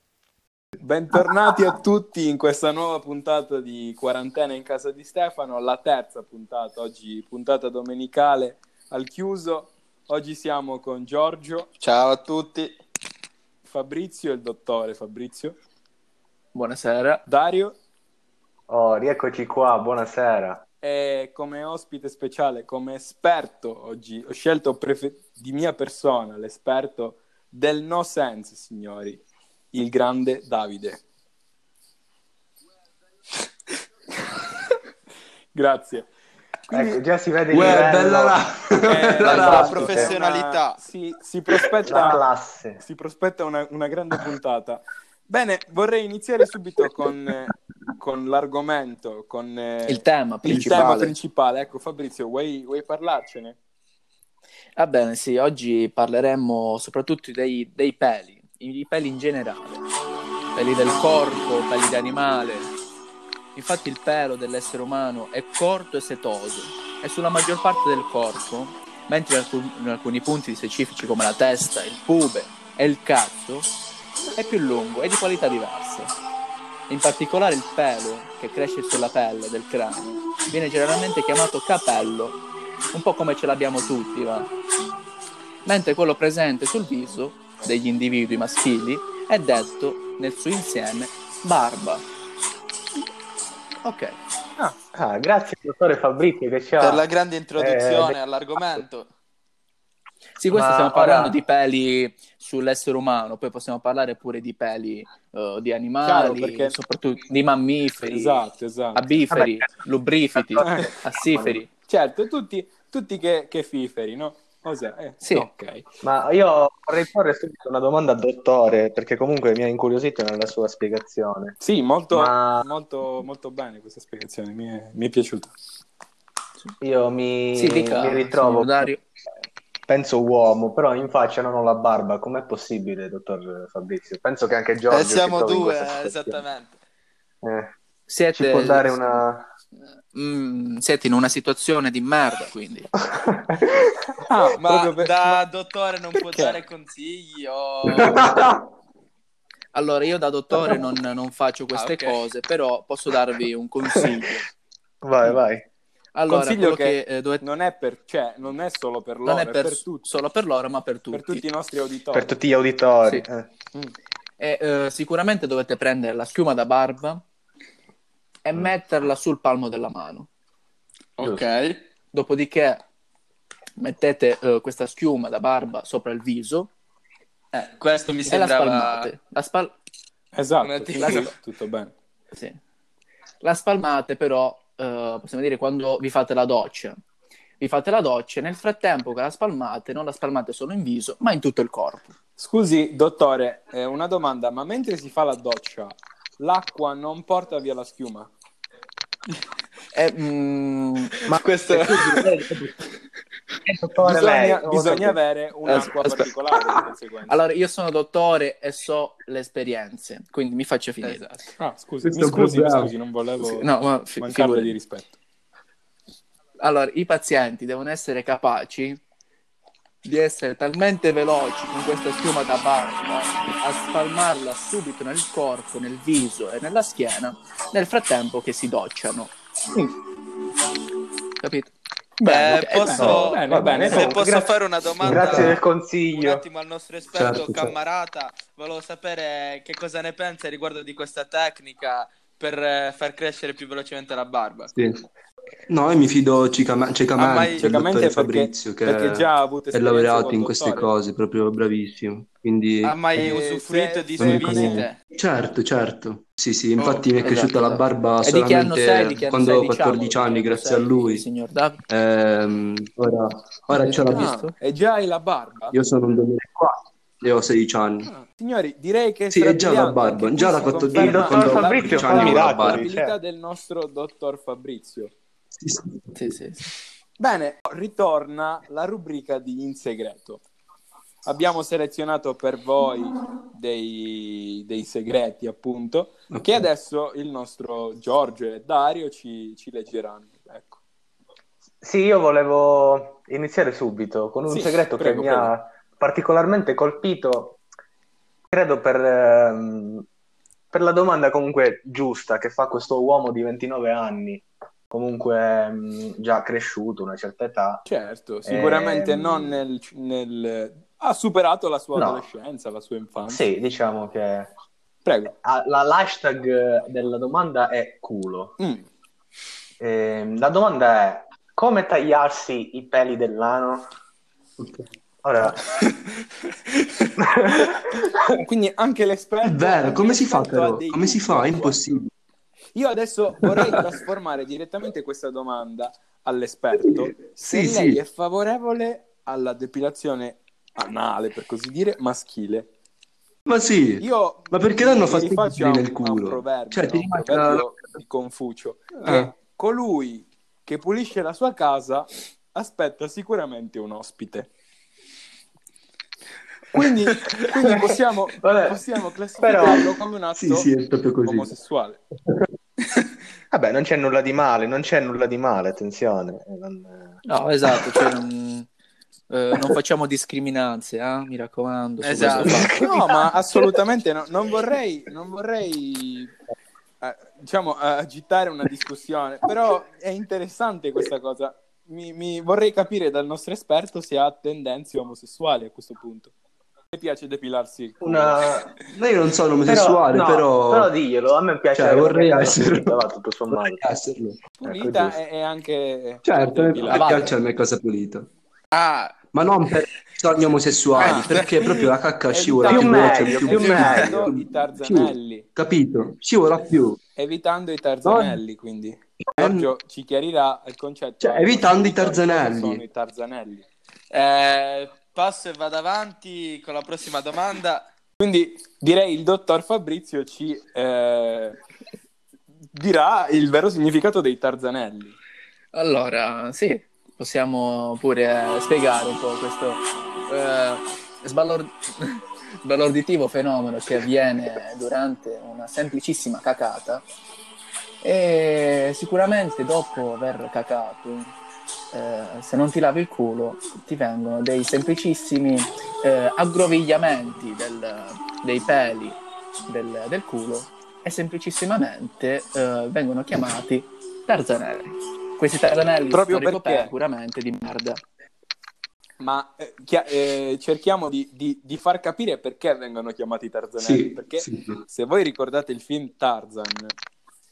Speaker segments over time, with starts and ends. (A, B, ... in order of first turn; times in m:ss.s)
0:00.8-0:11.7 A
0:11.8-0:12.8 B
0:13.6-0:15.6 A
0:16.5-0:17.2 C
0:17.3-0:17.8 A
0:18.7-0:20.6 D
0:20.8-0:29.2 A
0:29.7-0:31.0 A
0:35.5-0:36.1 A
0:36.7-0:37.0 A
0:36.7-0:38.4 D
0:37.5-0:39.9 E
0:37.5-0:37.9 A
0:38.9-0:42.2 A
0:39.2-0:40.2 D
0:39.3-0:40.8 B
0:41.9-0:42.8 D
0:42.8-0:53.6 A
0:49.9-0:51.2 C
0:50.4-0:50.9 E
0:54.8-0:59.8 C
1:00.5-1:02.7 C
1:03.5-1:13.7 C
1:14.4-1:16.1 C
1:16.9-1:22.4 C
1:22.9-1:24.5 C
1:25.6-1:32.0 C
1:33.8-1:34.2 C
1:35.0-1:37.1 D
1:36.8-1:39.1 B
1:37.6-1:38.2 D
1:40.4-1:48.4 C
1:40.5-1:41.4 D
1:46.0-1:46.7 A
1:48.1-1:49.1 A
1:49.0-1:51.7 C
1:49.3-1:49.7 D
1:50.4-1:51.6 D
1:50.6-1:51.0 A
1:51.8-1:55.8 A
1:56.0-2:01.6 D
2:01.6-2:05.5 A
2:02.1-2:02.7 D
2:06.8-2:08.9 D
2:07.5-2:09.0 C
2:09.9-2:16.4 D
2:14.9-2:16.8 B
2:17.4-2:17.7 D
2:18.1-2:19.2 C
2:18.4-2:19.4 D
2:20.1-2:22.9 C
2:23.1-2:24.2 D
2:24.3-2:25.4 A
2:24.6-2:28.3 B
2:26.1-2:26.6 A
2:27.9-2:28.7 E
2:29.7-2:34.5 C
2:31.7-2:32.2 B
2:35.0-2:35.6 D
2:36.2-2:37.4 C
2:36.3-2:40.1 A
2:39.3-2:41.4 C
2:41.1-2:42.4 A
2:42.1-2:43.5 D
2:44.4-2:47.2 C
2:48.4-2:50.3 C
2:51.2-2:51.8 B
2:52.1-2:52.8 C
2:53.8-2:56.7 C
2:57.5-2:59.1 B
2:58.3-2:59.7 C
3:00.3-3:01.9 A
3:00.6-3:01.3 B
3:01.0-3:01.3 C
3:02.3-3:02.6 C
3:03.4-3:07.0 C
3:07.6-3:12.1 C
3:12.4-3:18.3 A
3:19.9-3:22.2 C
3:21.3-3:22.7 D
3:23.6-3:25.2 D
3:24.0-3:27.4 A
3:25.7-3:26.3 C
3:27.3-3:31.2 C
3:31.0-3:31.4 B
3:31.6-3:33.7 A
3:32.0-3:32.9 E
3:33.6-3:34.8 C
3:34.2-3:35.2 A
3:36.6-3:39.0 C
3:40.0-3:49.3 C
3:51.4-3:51.7 C
3:52.2-3:54.2 A
3:52.2-4:04.7 B
3:52.5-3:52.8 C
3:53.0-3:54.0 E
3:53.6-3:56.5 D
3:55.0-3:55.6 E
3:57.1-3:57.8 E
4:04.7-4:05.0 E
4:05.7-4:13.4 E
4:07.2-4:07.7 B
4:07.6-4:10.9 A
4:12.8-4:15.0 B
4:13.2-4:14.9 A
4:14.2-4:21.2 E
4:16.8-4:17.1 B
4:17.2-4:21.8 C
4:21.9-4:24.3 E
4:23.7-4:24.5 C
4:24.1-4:25.8 A
4:25.7-4:28.1 E
4:28.0-4:35.1 A
4:29.3-4:32.9 E
4:30.9-4:33.2 D
4:35.5-4:36.4 E
4:36.2-4:36.6 C
4:37.2-4:40.4 A
4:41.2-4:50.8 A
4:46.3-4:46.7 E
4:51.8-4:57.6 D
4:54.5-4:55.5 A
4:58.5-5:00.1 D
5:00.7-5:07.8 D
5:07.9-5:13.4 A
5:08.5-5:09.6 D
5:12.0-5:12.3 D
5:13.3-5:14.5 D
5:15.0-5:15.3 A
5:15.3-5:18.6 D
5:18.6-5:18.9 A
5:19.8-5:23.9 D
5:24.6-5:24.9 E
5:25.2-5:25.6 D
5:27.2-5:28.4 D
5:28.4-5:31.8 A
5:29.4-5:32.1 E
5:32.8-5:42.7 A
5:33.4-5:33.9 E
5:36.7-5:38.0 E
5:43.5-5:47.7 E
5:44.0-5:54.5 A
5:49.0-5:49.3 E
5:56.7-6:02.0 A
5:57.4-5:58.8 D
5:59.4-5:59.9 D
6:00.4-6:01.5 E
6:03.5-6:07.2 D
6:07.3-6:08.7 C
6:07.8-6:08.0 D
6:09.3-6:12.7 C
6:12.0-6:12.6 B
6:12.4-6:13.8 D
6:12.6-6:16.3 A
6:17.0-6:26.3 A
6:26.9-6:28.6 A
6:28.0-6:28.7 D
6:28.9-6:30.9 E
6:29.7-6:33.8 D
6:31.7-6:35.2 E
6:34.6-6:37.3 A
6:36.2-6:38.3 E
6:36.9-6:37.3 C
6:38.7-6:39.2 B
6:39.3-6:47.0 E
6:41.0-6:45.5 A
6:41.0-6:41.6 B
6:42.7-6:44.3 D
6:47.2-6:53.7 A
6:48.0-6:48.4 E
6:49.3-6:49.7 E
6:51.2-6:52.8 E
6:54.1-6:57.9 B
6:58.2-7:01.6 A
7:02.7-7:05.2 A
7:05.7-7:17.0 C
7:18.0-7:21.3 C
7:21.9-7:38.0 C
7:36.1-7:36.9 A
7:39.2-7:47.0 A
7:43.8-7:44.8 E